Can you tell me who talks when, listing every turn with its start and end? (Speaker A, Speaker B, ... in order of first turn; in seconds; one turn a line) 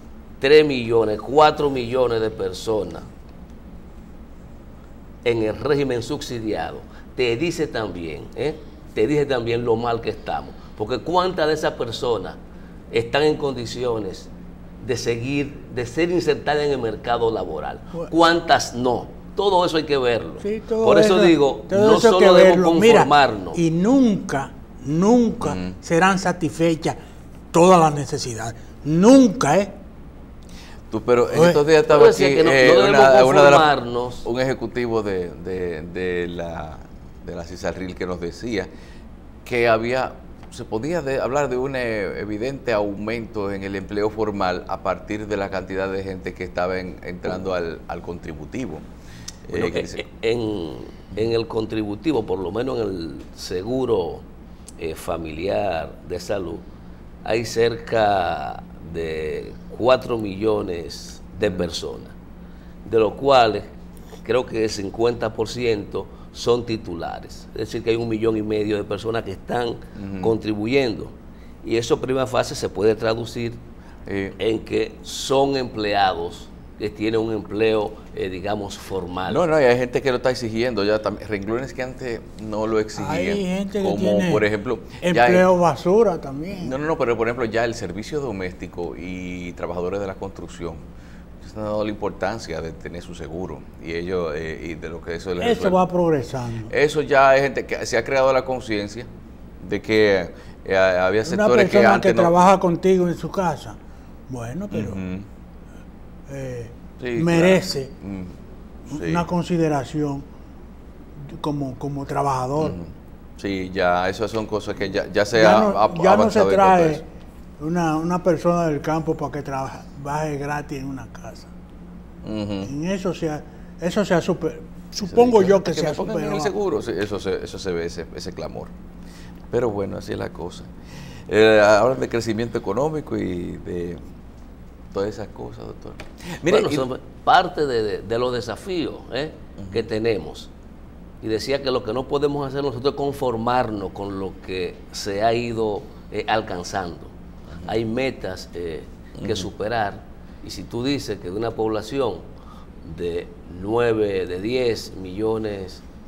Speaker A: 0.4-3.1
Speaker A: 5.2-12.4
Speaker A: 12.9-14.3
Speaker A: 14.8-23.6
Speaker B: 20.4-26.9
Speaker C: 25.4-25.8
Speaker B: 27.5-29.7
Speaker C: 30.9-38.7
Speaker B: 31.3-31.6
Speaker A: 31.9-34.3
Speaker C: 39.5-48.9
Speaker C: 49.5-50.0
Speaker A: 49.5-54.2
Speaker A: 54.8-56.6
Speaker A: 57.2-62.1
Speaker A: 62.8-63.7
Speaker A: 64.2-73.6
Speaker C: 70.0-70.3
Speaker C: 74.1-74.4
Speaker A: 74.4-79.4
Speaker C: 79.2-85.5
Speaker B: 82.9-84.5
Speaker B: 85.0-86.7
Speaker C: 86.5-90.8
Speaker C: 91.4-95.8
Speaker B: 95.4-96.7
Speaker C: 96.7-99.1
Speaker C: 99.6-102.4
Speaker B: 101.2-103.8
Speaker B: 104.3-105.0
Speaker C: 104.7-105.3
Speaker B: 106.3-107.9
Speaker C: 107.0-108.4
Speaker C: 108.9-109.2
Speaker B: 108.9-110.2
Speaker B: 111.3-112.8
Speaker C: 112.6-117.0
Speaker B: 115.3-117.0
Speaker B: 117.6-121.5
Speaker C: 122.2-122.7
Speaker B: 122.6-126.5
Speaker C: 125.0-128.7
Speaker C: 129.5-134.0
Speaker C: 134.9-136.9
Speaker A: 136.5-140.5
Speaker C: 139.6-139.9
Speaker A: 141.2-152.2
Speaker C: 147.5-147.8
Speaker C: 149.2-149.5
Speaker A: 152.8-155.8